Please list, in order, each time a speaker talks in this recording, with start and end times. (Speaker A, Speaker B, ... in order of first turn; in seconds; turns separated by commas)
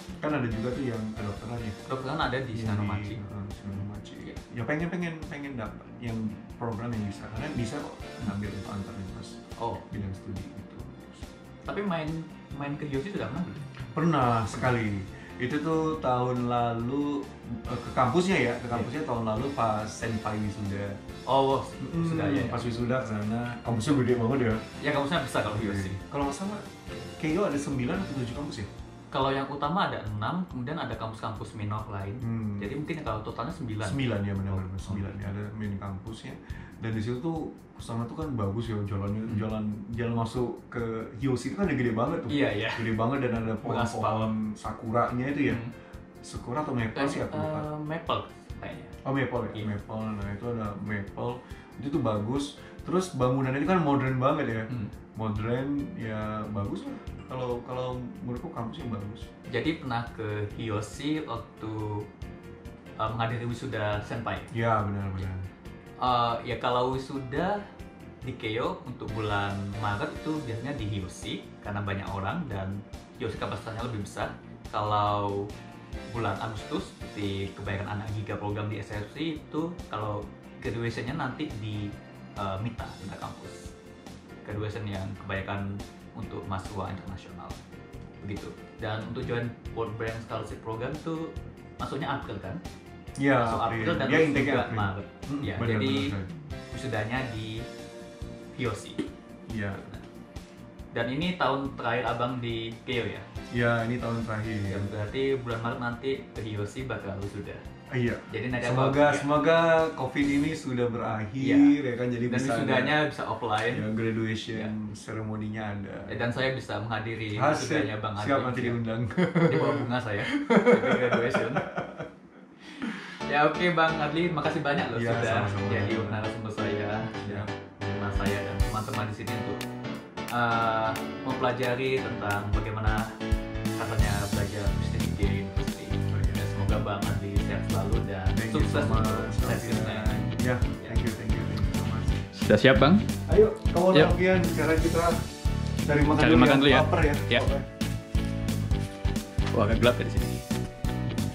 Speaker A: 0.2-1.8, Speaker B: 1.9-4.4, Speaker A: 2.5-9.4, Speaker B: 9.6-9.8, Speaker A: 9.9-11.3, Speaker B: 11.7-13.6, Speaker A: 13.9-21.0, Speaker B: 21.3-22.7, Speaker A: 21.8-24.7, Speaker B: 24.8-26.0, Speaker A: 25.5-28.7, Speaker B: 29.1-35.2, Speaker A: 32.2-32.7, Speaker A: 33.8-45.6, Speaker B: 42.3-42.8, Speaker B: 43.6-44.3, Speaker B: 45.4-45.7, Speaker A: 46.2-47.7, Speaker B: 46.9-49.0, Speaker A: 49.0-59.3, Speaker B: 59.5-62.0, Speaker B: 63.0-64.5, Speaker A: 64.5-65.5, Speaker B: 66.0-67.6, Speaker B: 68.2-75.5, Speaker B: 76.1-83.7, Speaker B: 84.4-87.6, Speaker B: 88.2-92.6, Speaker A: 93.2-96.3, Speaker B: 93.4-96.1, Speaker B: 96.7-97.6, Speaker B: 98.5-99.0, Speaker A: 99.5-99.9, Speaker B: 99.8-100.1, Speaker B: 100.9-103.2, Speaker A: 103.5-104.9, Speaker B: 104.7-107.6, Speaker A: 107.9-113.0, Speaker B: 108.3-109.3, Speaker B: 111.4-111.7, Speaker B: 112.3-113.8, Speaker A: 113.7-116.2, Speaker B: 116.1-118.8, Speaker A: 117.3-122.1, Speaker B: 119.5-121.7, Speaker B: 123.2-129.6, Speaker A: 124.9-126.3, Speaker A: 127.2-128.2, Speaker B: 130.3-133.1, Speaker B: 133.8-140.2, Speaker A: 136.1-136.8, Speaker A: 138.3-142.3, Speaker B: 142.3-143.1, Speaker A: 143.3-145.2, Speaker A: 145.8-147.7, Speaker B: 146.1-147.5, Speaker B: 149.5-150.4